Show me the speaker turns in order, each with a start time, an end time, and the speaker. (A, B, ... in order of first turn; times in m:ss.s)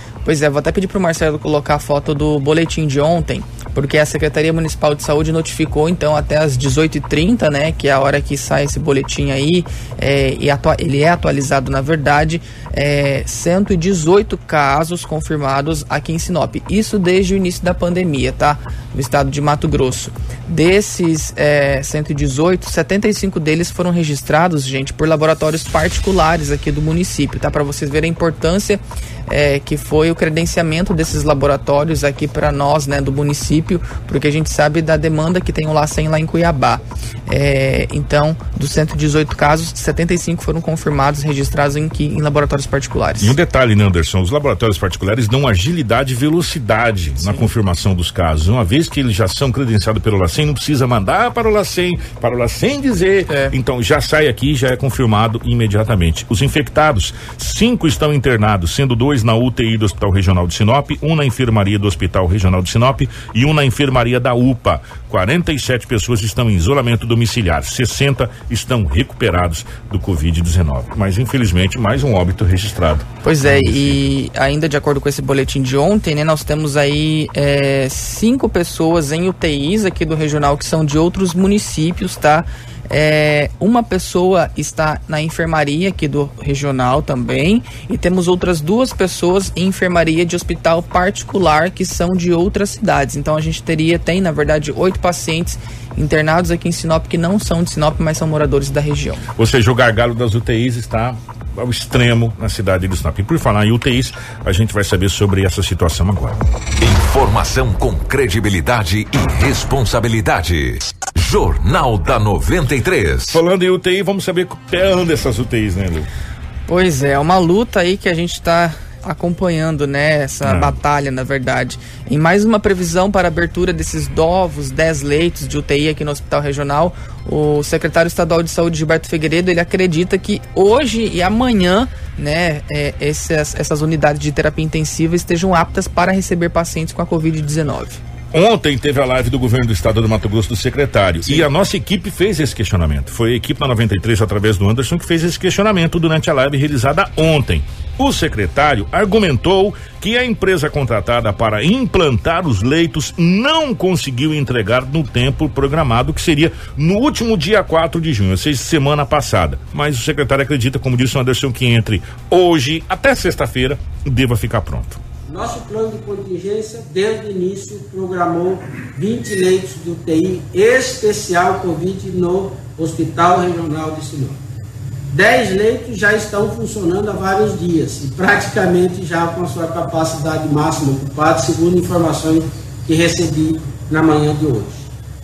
0:00.2-0:43.4 A
0:43.2-1:14.0 B
0:47.2-0:47.4 A
0:53.3-0:53.5 A
1:13.2-1:39.2 A
1:39.4-1:46.4 B
1:46.8-1:53.4 C
1:53.3-1:56.1 B
1:56.7-2:18.0 A
2:00.4-2:00.8 B
2:18.3-2:45.0 B
2:45.3-2:54.4 D
2:55.1-3:04.9 D